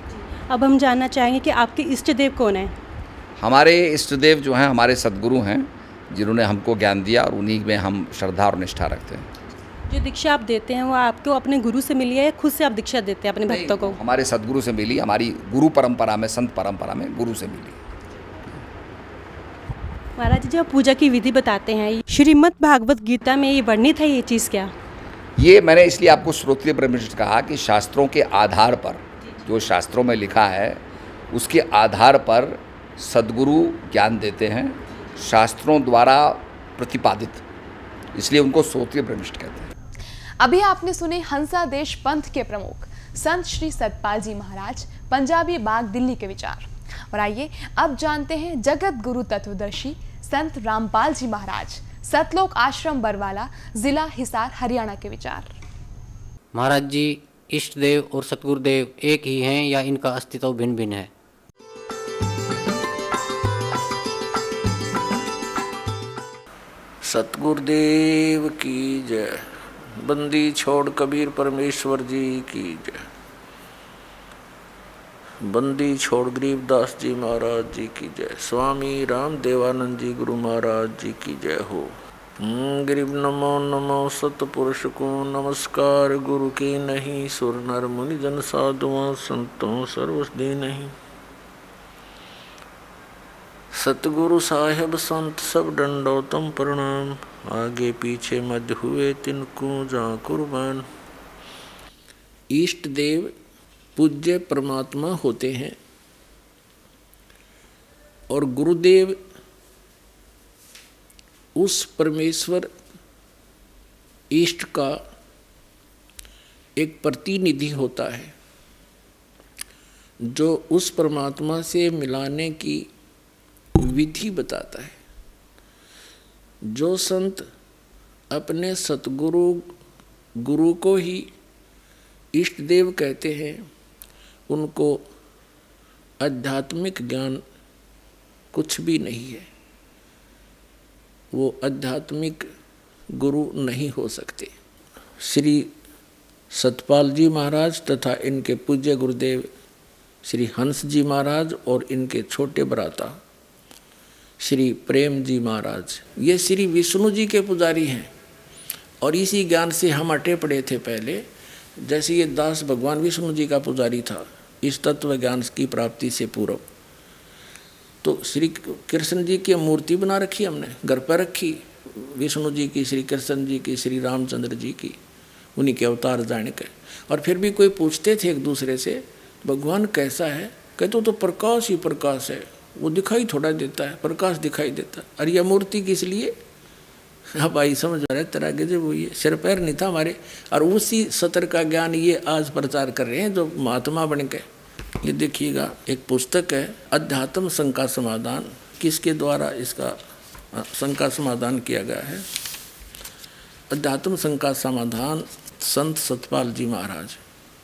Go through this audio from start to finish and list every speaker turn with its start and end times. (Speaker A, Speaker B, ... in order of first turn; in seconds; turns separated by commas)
Speaker A: 0.1-2.7, Speaker B: 3.4-9.3, Speaker A: 9.9-14.0, Speaker B: 13.5-17.8, Speaker A: 20.2-24.7, Speaker B: 25.4-37.4, Speaker B: 38.1-39.7, Speaker C: 40.4-55.5, Speaker D: 56.5-61.1, Speaker E: 67.0-69.4, Speaker E: 70.0-73.1, Speaker E: 75.4-90.9, Speaker E: 93.8-100.9, Speaker E: 102.5-103.3, Speaker E: 104.0-105.8, Speaker E: 108.3-109.2, Speaker E: 111.6-112.7, Speaker E: 114.3-115.0, Speaker E: 116.8-118.3, Speaker E: 120.3-122.9, Speaker E: 123.8-125.0, Speaker E: 126.7-127.5, Speaker E: 128.3-129.7, Speaker E: 130.4-131.3, Speaker E: 132.3-133.6, Speaker E: 134.5-135.1, Speaker E: 136.2-137.4, Speaker E: 138.5-139.5, Speaker E: 141.3-142.5, Speaker E: 143.2-144.5, Speaker E: 145.2-145.7, Speaker E: 146.5-149.5, Speaker E: 150.2-153.2, Speaker E: 154.4-158.1, Speaker E: 159.0-161.2, Speaker E: 161.8-166.6, Speaker E: 168.0-175.0, Speaker E: 175.6-186.3, Speaker E: 187.4-194.4, Speaker E: 195.0-200.0, Speaker E: 200.5-202.2, Speaker E: 203.7-207.2